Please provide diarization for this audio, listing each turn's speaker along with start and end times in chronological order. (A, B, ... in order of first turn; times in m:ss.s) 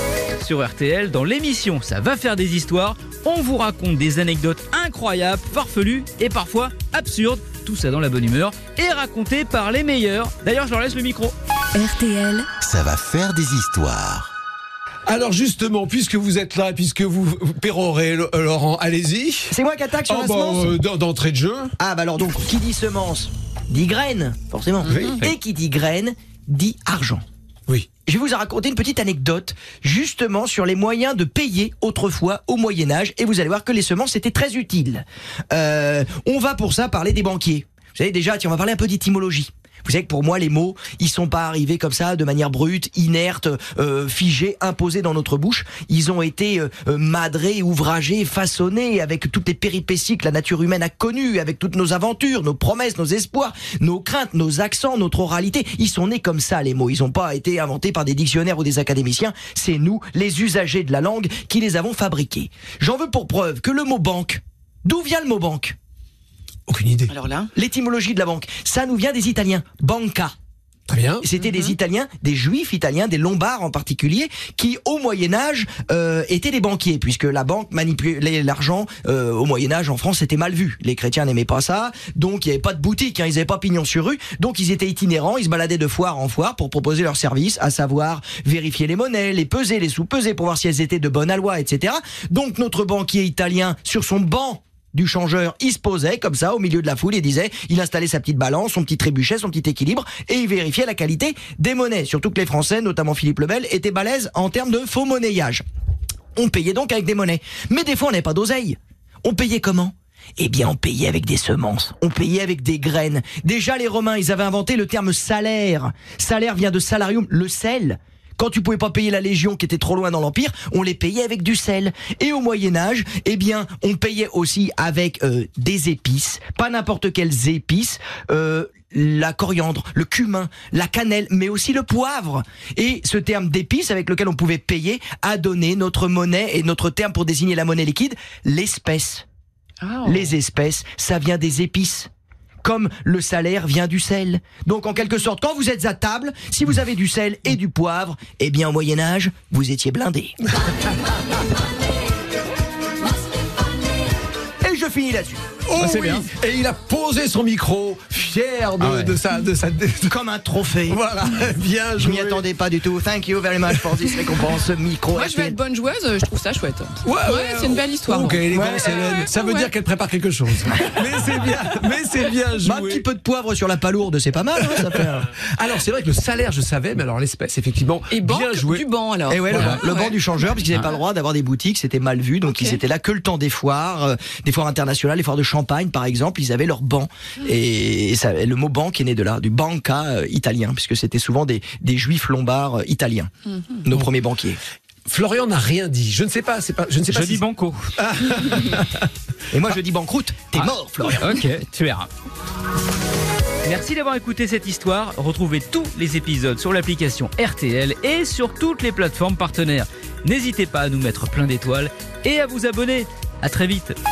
0:00.4-0:11.3 A
0:11.8-0:14.3 B
0:15.1-0:21.8 C
0:19.5-0:20.8 D
0:21.8-0:27.2 D
0:24.9-0:25.3 C
0:28.1-1:05.8 D
1:06.7-1:07.1 C
1:07.1-1:07.5 E
1:07.5-1:10.3 D
1:10.9-1:11.2 C
1:11.2-1:45.6 D
1:11.4-1:11.7 E
1:46.4-2:19.2 D
2:19.8-2:20.4 E
2:20.0-2:22.1 D
2:22.6-2:30.4 D
2:34.6-2:35.4 D
2:35.7-2:40.2 C
2:35.9-2:36.2 D
2:38.8-2:39.2 D
2:40.1-2:41.0 D
2:40.9-2:42.4 C
2:42.0-2:45.6 D
2:45.1-2:49.7 E
2:47.0-2:53.0 C
2:48.5-2:49.0 D
2:52.6-2:55.3 D
2:54.6-2:58.9 C
2:58.1-3:00.2 E
2:59.3-3:13.3 D
2:59.5-2:59.8 C
3:02.5-3:02.8 E
3:13.8-3:14.6 D
3:15.1-3:17.4 C
3:17.1-3:17.9 A
3:18.0-3:19.1 C
3:19.5-3:21.3 D
3:21.2-3:22.1 A
3:23.6-3:34.0 A